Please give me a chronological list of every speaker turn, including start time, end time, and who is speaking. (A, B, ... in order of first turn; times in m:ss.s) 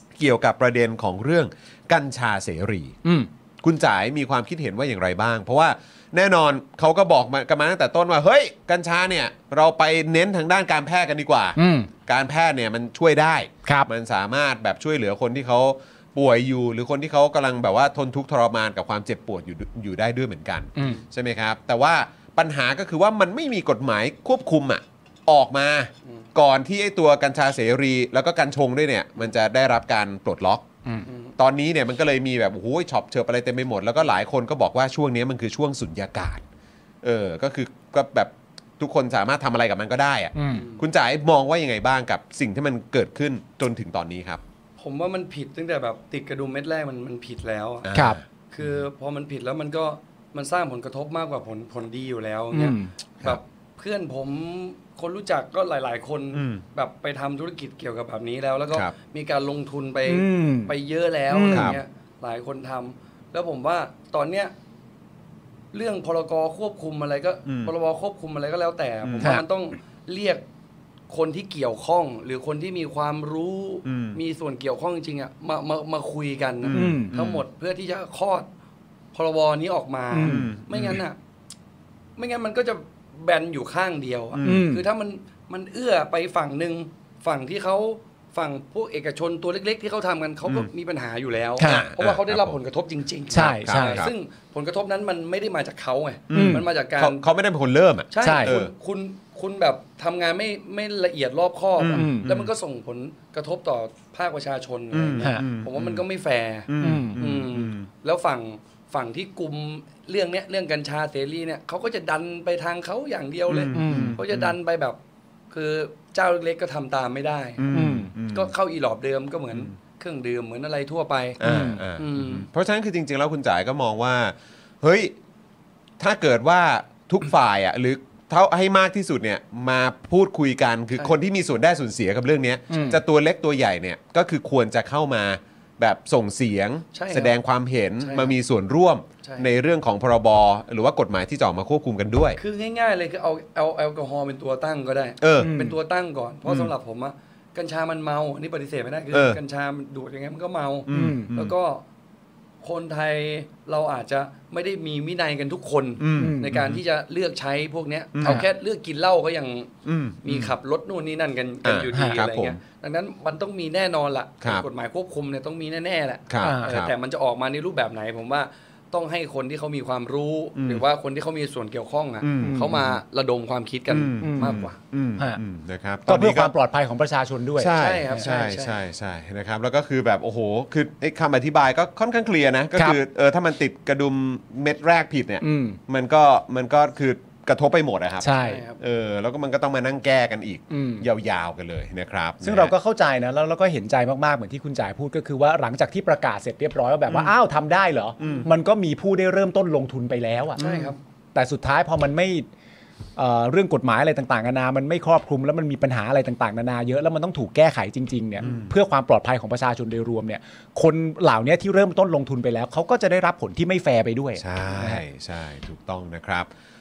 0:00.2-0:03.0 A
0:03.6-0:30.6 A
0:11.6-0:11.9 B
0:20.8-0:21.0 B
0:31.1-0:31.3 C
0:31.4-0:36.4 A
0:37.0-0:44.4 A
0:40.3-0:40.6 B
0:40.5-0:40.8 C
0:44.8-0:47.9 C
0:47.8-0:48.8 A
0:47.9-0:48.2 B
0:48.5-1:04.5 C
0:52.5-0:52.9 B
0:56.3-0:56.6 A
1:00.0-1:00.7 B
1:01.3-1:01.8 B
1:01.5-1:01.8 A
1:05.7-1:10.4 C
1:07.4-1:07.7 A
1:09.0-1:09.4 A
1:11.1-1:18.5 C
1:13.8-1:14.2 A
1:16.6-1:17.4 A
1:16.7-1:17.1 B
1:19.1-1:21.2 C
1:20.1-1:20.5 B
1:20.2-1:21.0 A
1:22.2-1:37.3 C
1:24.3-1:24.6 A
1:24.4-1:24.8 B
1:30.4-1:30.7 A
1:31.6-1:31.9 B
1:31.6-1:32.6 A
1:33.3-1:34.1 B
1:33.6-1:34.1 A
1:36.3-1:38.7 A
1:36.3-1:36.7 B
1:38.1-1:55.0 C
1:38.2-1:38.5 B
1:41.8-1:42.5 A
1:41.9-1:42.3 B
1:44.9-1:46.0 A
1:46.7-1:47.9 A
1:46.8-1:47.3 B
1:53.5-1:54.6 A
1:53.7-1:54.2 B
1:55.5-2:01.4 C
1:57.6-1:58.5 A
1:57.7-1:58.1 B
2:01.4-2:05.1 A
2:01.4-2:01.8 B
2:01.9-2:02.5 C
2:06.0-2:22.4 A
2:12.7-2:13.0 B
2:16.9-2:17.4 C
2:18.0-2:18.4 C
2:19.2-2:19.5 C
2:22.4-2:31.8 C
2:25.2-2:25.5 A
2:25.4-2:25.8 B
2:26.4-2:26.7 A
2:29.1-2:29.4 A
2:30.9-2:31.5 A
2:30.9-2:31.3 B
2:32.6-2:39.7 C
2:36.0-2:36.8 A
2:36.2-2:36.6 B
2:38.1-2:38.4 A
2:39.8-2:40.5 A
2:40.2-2:54.8 C
2:41.6-2:42.6 A
2:41.9-2:42.2 B
2:46.3-2:46.9 A
2:46.4-2:46.8 B
2:50.5-2:50.8 A
2:52.2-2:52.9 A
2:52.4-2:53.0 B
2:53.9-2:56.5 A
2:54.2-2:55.4 B
2:56.0-2:58.3 B
2:57.6-3:12.7 A
2:57.7-2:58.8 C
3:05.4-3:05.8 B
3:08.2-3:08.6 B
3:08.4-3:08.8 C
3:10.7-3:11.0 B
3:12.4-3:20.6 B
3:18.2-3:18.5 A
3:20.6-3:20.9 A
3:20.6-3:21.0 C
3:21.3-3:22.5 B
3:23.2-3:35.0 B
3:28.4-3:28.7 A
3:34.4-3:36.5 A